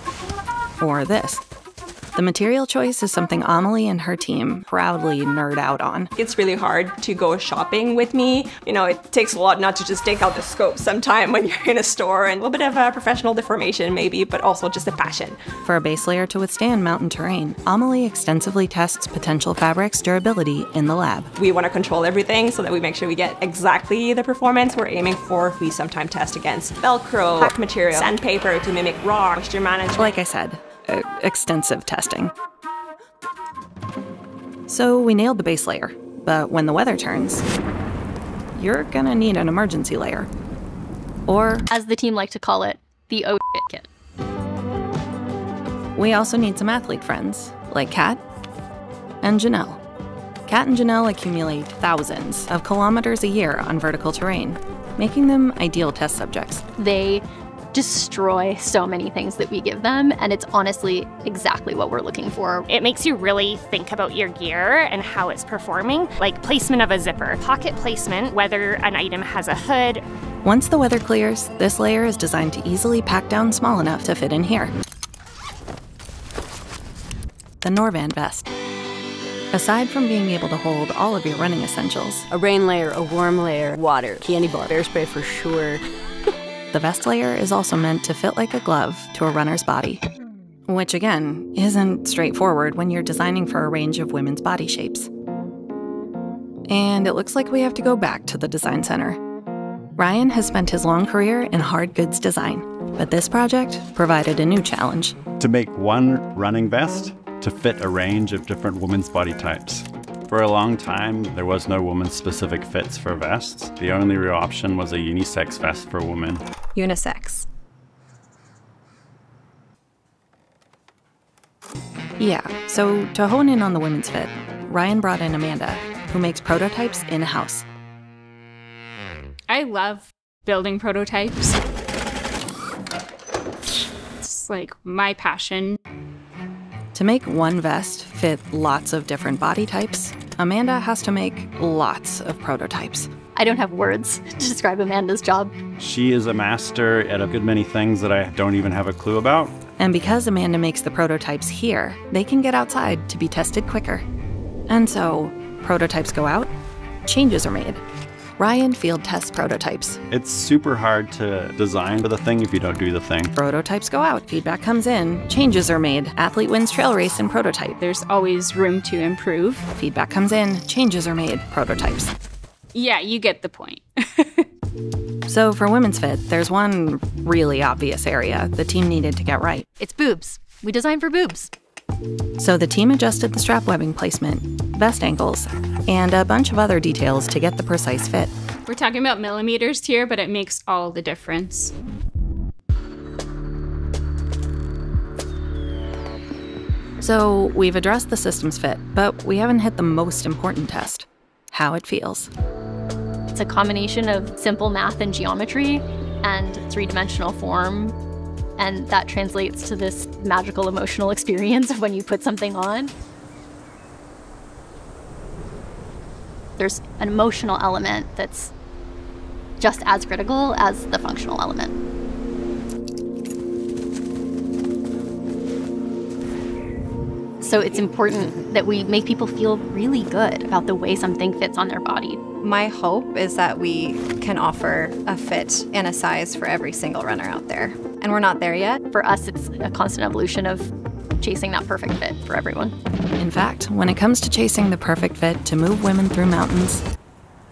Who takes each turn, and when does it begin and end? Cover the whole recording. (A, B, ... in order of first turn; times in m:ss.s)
0:00.8-0:01.4 A
0:02.1-0:06.1 A
0:06.2-0:15.4 B
0:15.6-0:21.3 A
0:21.4-0:30.2 B
0:30.0-0:32.3 A
0:34.7-0:37.5 A
0:38.5-0:40.3 A
0:41.3-0:41.7 A
0:41.7-0:43.9 C
0:46.0-0:48.2 A
0:49.2-0:49.8 A
0:50.5-0:56.6 A
0:56.8-1:02.7 C
1:02.7-1:10.0 D
1:10.4-1:14.7 A
1:17.6-1:18.5 A
1:19.5-1:22.3 A
1:22.3-1:25.8 E
1:26.7-1:30.0 A
1:30.7-1:35.1 A
1:36.7-1:39.2 A
1:40.0-1:45.2 A
1:45.4-1:56.4 F
1:56.7-1:57.4 G
2:02.2-2:07.6 A
2:09.5-2:11.6 H
2:14.2-2:15.8 H
2:16.9-2:23.1 A
2:23.4-2:25.5 C
2:25.8-2:29.5 F
2:29.8-2:34.0 A
2:34.7-2:36.5 A
2:37.0-2:37.8 A
2:38.4-2:40.0 A
2:40.1-2:43.3 F
2:43.4-2:47.8 A
2:47.8-2:49.6 H
2:49.7-2:52.1 A
2:52.7-2:54.4 H
2:55.3-2:59.6 A
2:59.8-3:01.5 C
3:02.4-3:08.3 A
3:08.7-3:11.7 H
3:17.0-3:22.3 A
3:23.3-3:27.9 C
3:28.6-3:32.9 C
3:36.6-3:38.5 C
3:39.6-3:41.7 C
3:47.4-3:52.2 C
3:52.4-3:58.8 G
3:58.9-4:02.7 C
4:03.2-4:06.8 A